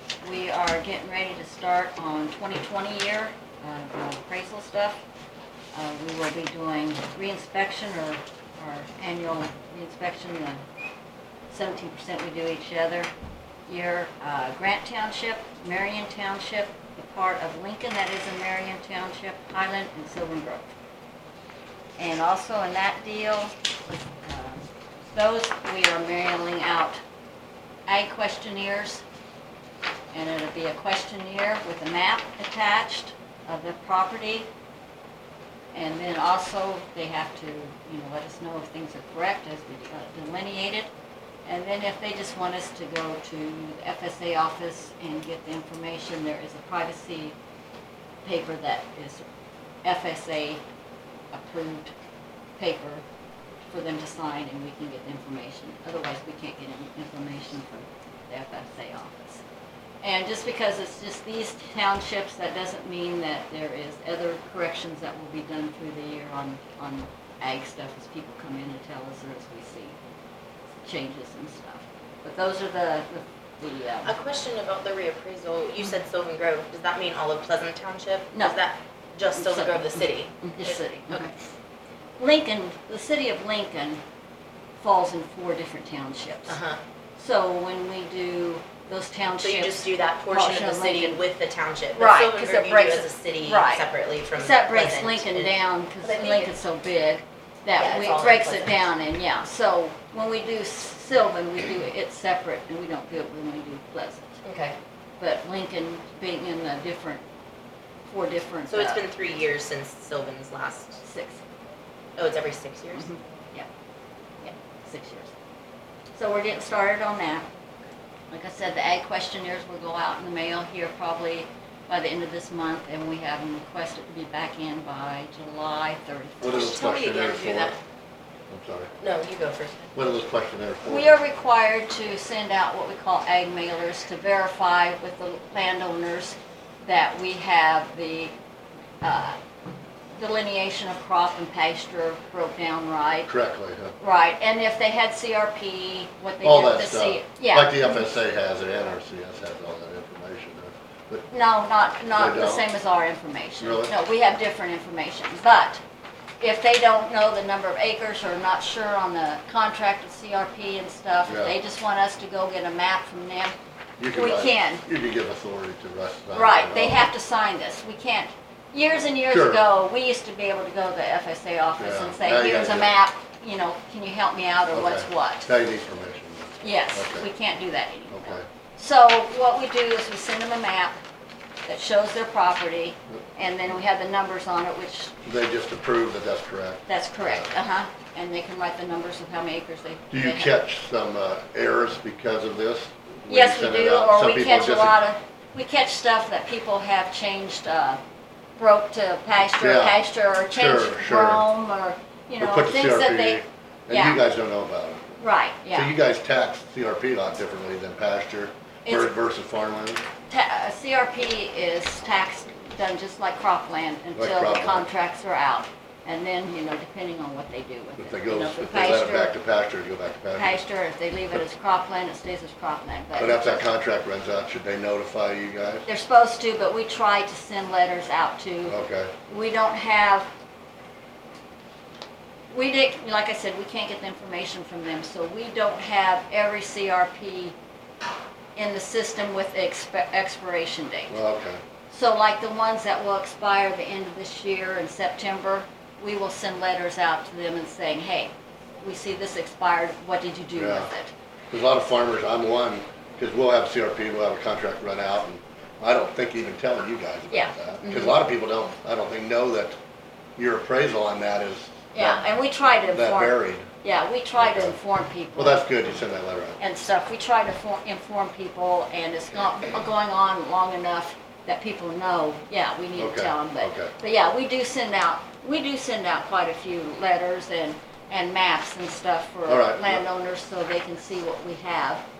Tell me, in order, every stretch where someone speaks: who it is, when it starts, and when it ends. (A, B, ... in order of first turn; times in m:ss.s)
0:00.2-0:05.0 A
0:05.7-0:10.6 A
0:11.5-0:13.1 A
0:13.7-0:20.7 A
0:22.0-0:23.5 A
0:24.2-0:27.0 A
0:27.9-0:29.0 A
0:30.1-0:34.5 A
0:35.7-0:40.9 A
0:41.4-0:47.4 A
0:48.2-0:49.2 A
0:49.8-0:50.6 A
0:51.3-0:51.9 A
0:52.6-0:53.0 A
0:53.6-0:59.4 A
1:00.0-1:10.0 A
1:10.8-1:14.1 A
1:14.0-1:21.3 B
1:18.3-1:18.6 A
1:19.3-1:21.4 A
1:22.2-1:24.0 A
1:24.8-1:26.6 A
1:26.5-1:26.8 B
1:27.2-1:31.2 A
1:29.4-1:36.6 B
1:32.0-1:44.4 A
1:37.8-1:38.8 B
1:44.4-1:44.8 B
1:45.2-1:47.2 A
1:48.1-1:49.0 A
1:48.7-1:51.0 B
1:51.0-1:51.4 A
1:52.2-1:53.1 B
1:52.9-1:53.7 A
1:54.4-1:55.3 A
1:56.1-1:57.4 A
1:58.3-2:06.8 A
2:06.4-2:07.8 C
2:06.4-2:07.8 B
2:08.5-2:08.9 C
2:09.0-2:09.9 B
2:09.9-2:11.2 C
2:10.8-2:18.3 A
2:19.0-2:19.4 A
2:20.2-2:23.3 A
2:23.3-2:23.9 C
2:24.0-2:28.0 A
2:26.4-2:31.2 C
2:31.3-2:35.8 A
2:32.1-2:32.7 C
2:33.6-2:33.9 C
2:36.4-2:43.5 A
2:41.3-2:41.5 C
2:44.0-2:47.1 C
2:44.1-2:44.8 A
2:46.3-2:55.5 A
2:49.3-2:49.6 C
2:51.8-2:52.9 C
2:54.7-2:57.2 C
2:56.6-3:01.0 A
2:58.1-2:58.4 C
3:01.6-3:05.1 A
3:05.2-3:07.5 C
3:06.9-3:10.5 A
3:10.1-3:15.0 C
3:13.3-3:18.0 A
3:18.6-3:24.2 A
3:19.6-3:21.4 C
3:22.4-3:25.2 C
3:25.2-3:25.9 A
3:25.7-3:30.0 C
3:28.8-3:29.1 A
3:30.3-3:39.4 A
3:34.1-3:34.9 C
3:38.0-3:40.6 C
3:40.3-3:43.6 A
3:43.2-3:45.8 C
3:45.8-3:50.3 A
3:48.7-3:49.1 C
3:52.5-3:57.5 A
3:58.6-4:01.2 A
4:01.1-4:01.6 C
4:01.9-4:11.1 A
4:10.6-4:10.9 C
4:11.5-4:19.8 C
4:17.3-4:18.2 A
4:20.4-4:22.3 C
4:21.9-4:25.6 A
4:22.9-4:23.7 C
4:24.4-4:24.8 C
4:25.4-4:26.6 C
4:26.6-4:42.0 A
4:33.0-4:33.9 C
4:39.5-4:40.0 C